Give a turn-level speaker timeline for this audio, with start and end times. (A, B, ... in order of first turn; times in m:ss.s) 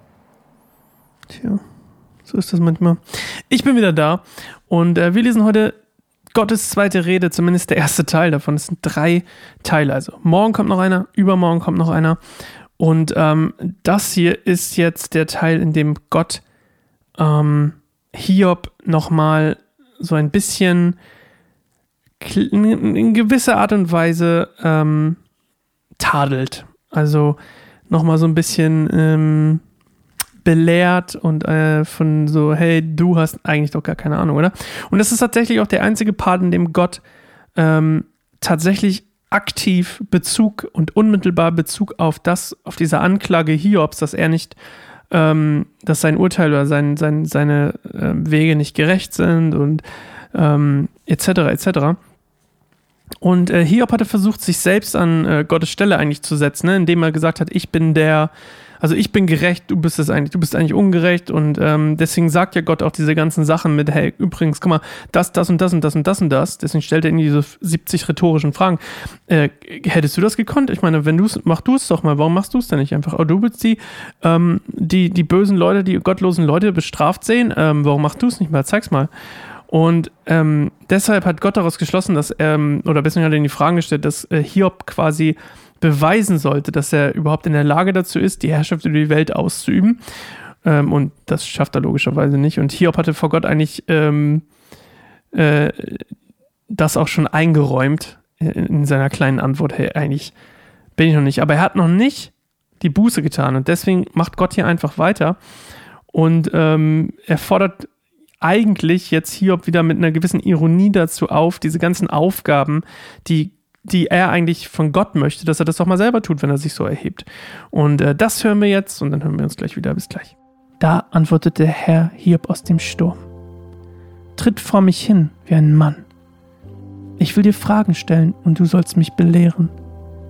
0:01.3-0:01.6 A
0:02.2-0:05.8 A
0:06.3-0:12.2 A
0:12.8-0:16.4 A
0:17.2-0:21.0 A
0:22.2-0:25.2 A
0:26.0-0:29.6 A
0:30.4-0:37.0 A
0:37.6-0:44.6 A
0:45.1-0:52.0 A
0:53.2-1:19.1 A
1:19.7-1:30.0 A
1:30.6-1:34.4 A
1:35.3-1:36.1 A
1:36.7-1:40.3 A
1:41.0-1:45.4 A
1:46.1-2:03.3 A
2:04.4-2:06.1 A
2:07.2-2:09.7 A